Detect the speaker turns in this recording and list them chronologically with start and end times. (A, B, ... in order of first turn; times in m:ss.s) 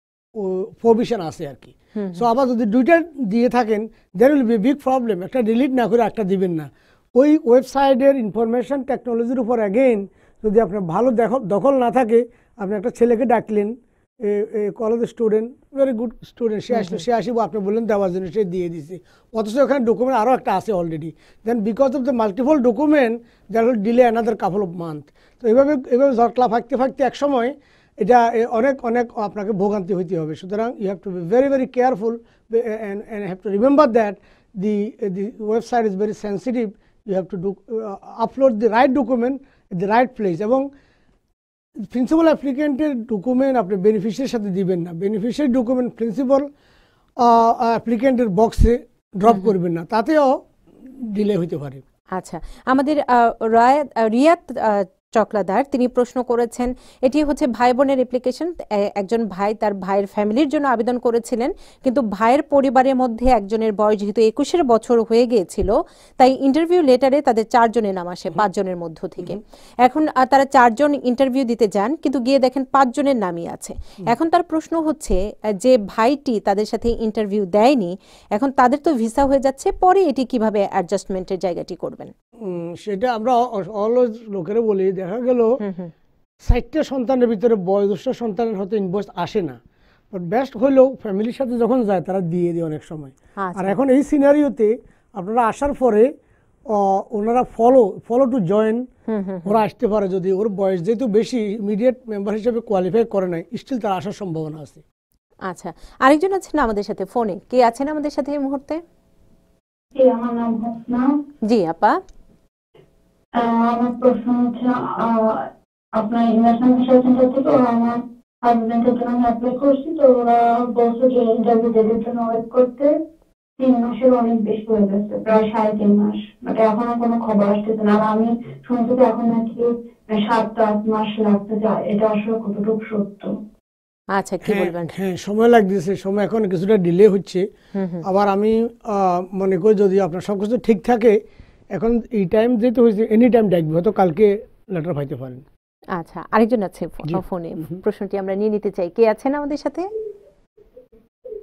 0:00.4-0:40.7 A
0:02.0-0:02.3 B
0:16.7-0:17.0 B
0:41.8-0:46.5 A
0:47.2-0:50.4 A
0:51.0-0:51.8 A
0:52.1-1:22.1 B
1:22.4-1:25.5 A
1:25.6-1:25.9 B
1:26.4-1:29.6 A
1:30.1-1:36.1 A
1:33.4-1:33.8 B
1:36.7-1:38.9 A
1:39.1-1:39.6 B
1:39.4-1:44.8 A
1:45.5-1:48.8 B
1:49.9-1:51.1 C
1:51.4-1:52.0 B
1:53.4-1:55.4 C
1:56.0-2:02.9 C
2:03.6-2:13.3 C
2:14.1-2:14.9 B
2:14.4-2:17.5 A
2:17.7-2:18.0 B
2:18.0-2:21.2 A
2:21.7-2:25.4 A
2:25.9-2:29.9 B
2:27.0-2:27.8 A